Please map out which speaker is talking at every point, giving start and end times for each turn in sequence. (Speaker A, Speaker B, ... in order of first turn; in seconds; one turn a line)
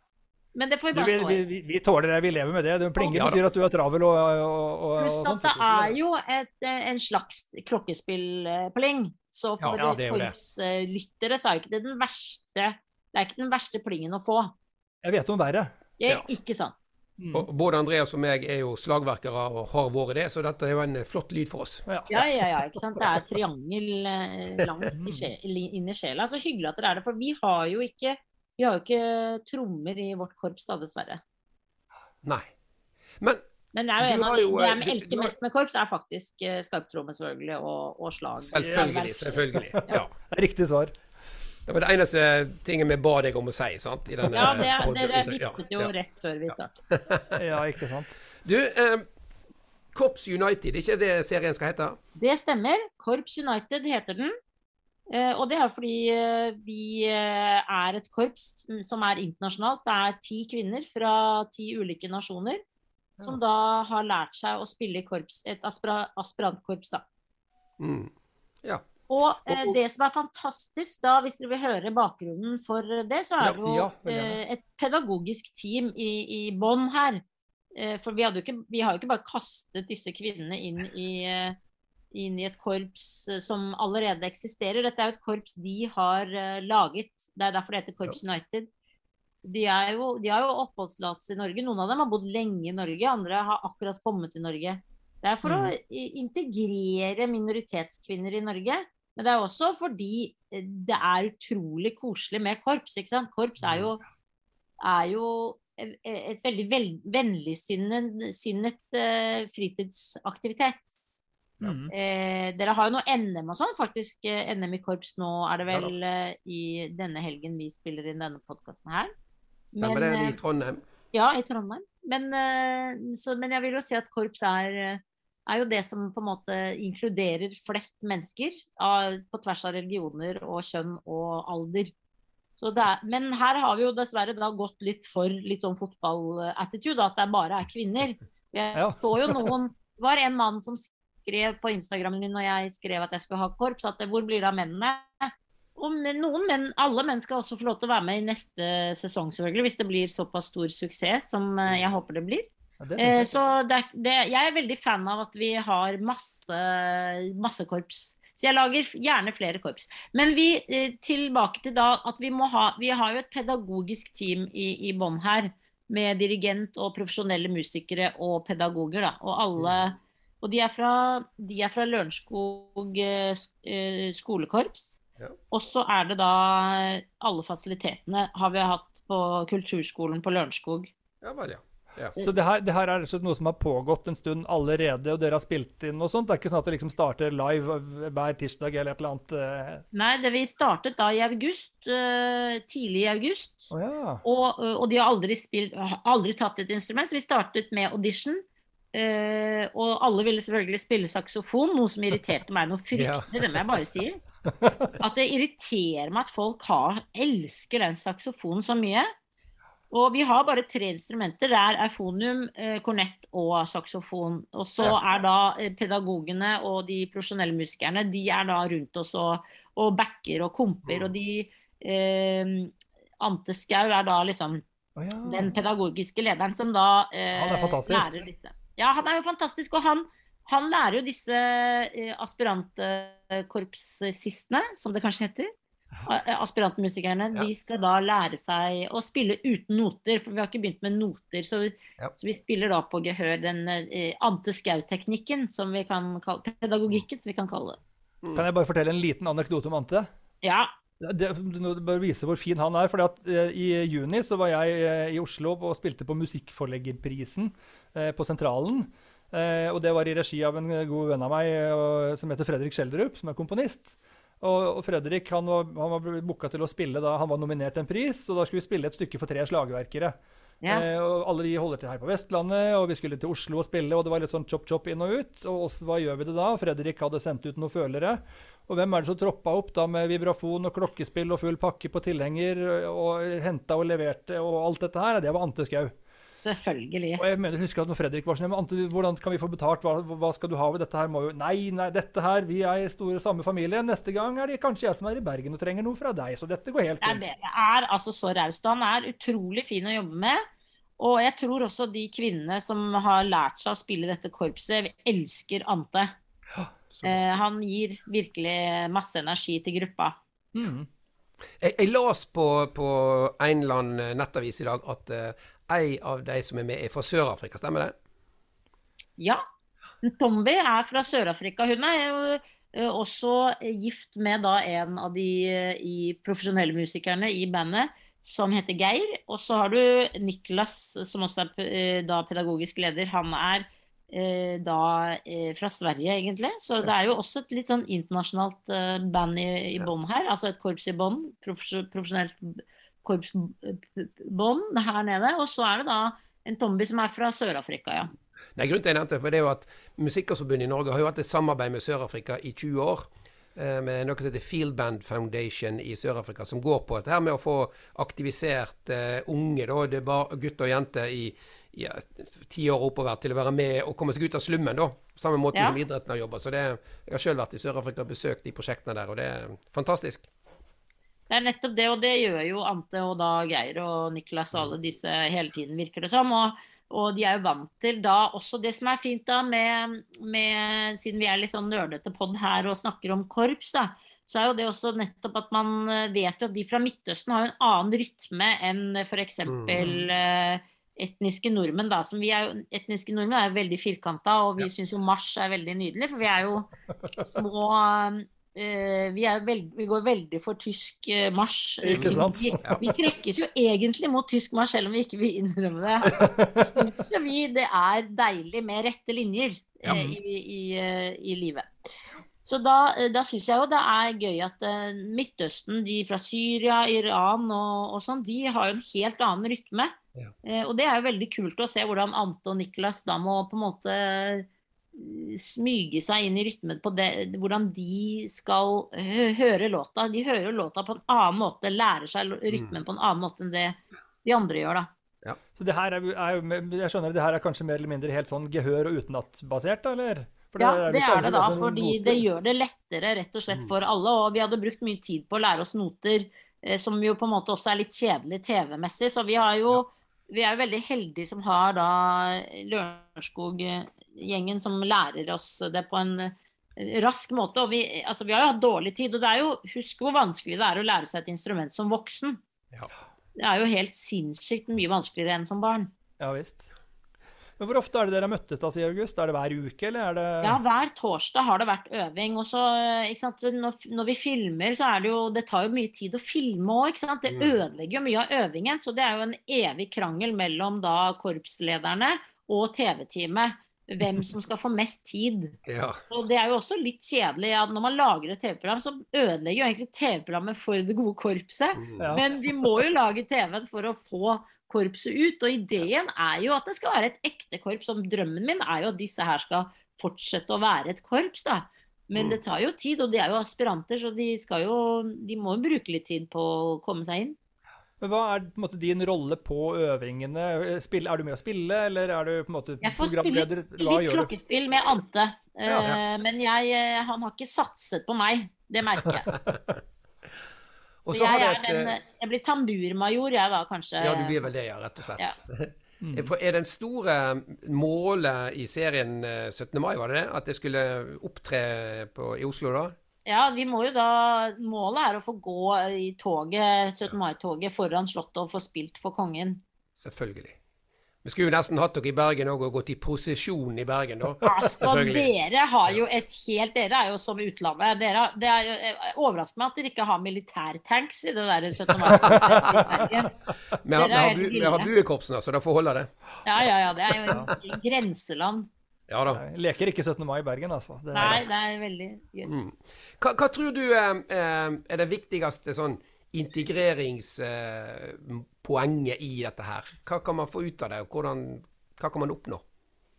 Speaker A: 0.5-1.4
Speaker B: 0.9-6.0
Speaker C: 3.1-3.4
Speaker A: 5.0-14.5
Speaker B: 9.7-10.3
Speaker B: 15.0-15.7
Speaker A: 16.0-16.8
Speaker B: 17.2-17.5
Speaker C: 17.3-21.9
Speaker B: 21.9-22.2
Speaker A: 22.1-31.2
Speaker B: 24.9-25.3
Speaker C: 32.2-32.5
Speaker A: 33.7-39.4
Speaker C: 34.0-35.3
Speaker C: 38.4-40.1
Speaker B: 38.6-40.9
Speaker C: 41.7-45.9
Speaker A: 44.3-46.8
Speaker C: 46.9-47.4
Speaker B: 47.3-48.1
Speaker C: 48.4-49.0
Speaker C: 49.9-52.0
Speaker A: 52.1-54.3
Speaker A: 55.1-62.6
Speaker A: 63.2-67.0
Speaker C: 67.8-68.1
Speaker A: 69.1-77.2
Speaker C: 69.5-69.8
Speaker B: 73.5-74.4
Speaker A: 77.7-81.5
Speaker A: 82.1-88.7
Speaker A: 89.4-104.0
Speaker B: 95.4-95.7
Speaker C: 103.6-103.9
Speaker A: 104.8-110.9
Speaker B: 111.6-111.9
Speaker A: 111.9-119.1
Speaker A: 119.7-120.4
Speaker C: 119.8-120.8
Speaker A: 121.1-131.9
Speaker A: 132.6-175.0
Speaker B: 138.7-139.5
Speaker C: 151.7-151.9
Speaker B: 152.8-153.5
Speaker C: 169.6-169.8
Speaker A: 175.5-180.9
Speaker C: 181.2-182.2
Speaker B: 182.2-189.8
Speaker A: 189.9-193.7
Speaker B: 193.7-194.2
Speaker A: 194.2-204.2
Speaker C: 202.9-203.8
Speaker B: 204.6-204.9
Speaker A: 205.0-209.1
Speaker A: 209.9-224.6
Speaker C: 220.8-221.1
Speaker B: 224.9-225.5
Speaker A: 225.2-235.5
Speaker B: 227.3-228.3
Speaker A: 236.1-247.8
Speaker B: 248.3-250.1
Speaker A: 250.4-250.7
Speaker B: 251.0-270.1
Speaker B: 270.7-285.9
Speaker A: 286.4-287.2
Speaker B: 287.2-297.2
Speaker A: 297.0-300.4
Speaker A: 301.0-306.1
Speaker C: 306.9-307.2
Speaker A: 307.0-310.2
Speaker B: 310.5-310.9
Speaker C: 311.6-317.9
Speaker A: 320.0-348.1
Speaker C: 348.6-370.3
Speaker A: 371.3-396.7
Speaker C: 389.5-389.8
Speaker B: 389.8-390.0
Speaker A: 397.3-411.7
Speaker B: 401.8-402.6
Speaker C: 401.9-402.9
Speaker B: 406.1-406.8
Speaker B: 409.9-410.2
Speaker A: 412.4-434.9
Speaker B: 435.6-442.2
Speaker A: 440.6-462.4
Speaker A: 463.4-465.9
Speaker B: 466.2-466.7
Speaker B: 467.6-470.6
Speaker A: 470.4-485.6
Speaker C: 477.3-477.6
Speaker C: 485.6-486.0
Speaker A: 486.1-507.4
Speaker C: 491.8-492.2
Speaker B: 492.0-492.2
Speaker B: 508.0-514.3
Speaker A: 512.8-519.3
Speaker B: 515.6-515.9
Speaker C: 521.0-521.9
Speaker A: 521.1-524.4
Speaker C: 524.0-532.9
Speaker B: 526.0-526.3
Speaker A: 533.2-539.6
Speaker C: 540.0-540.6
Speaker C: 541.2-545.3
Speaker A: 544.4-553.3
Speaker C: 552.1-553.0
Speaker B: 552.1-553.3
Speaker C: 553.8-556.1
Speaker A: 553.9-554.9
Speaker A: 556.4-558.7
Speaker C: 559.1-559.4
Speaker B: 559.3-561.4
Speaker A: 561.1-562.5
Speaker C: 562.5-572.6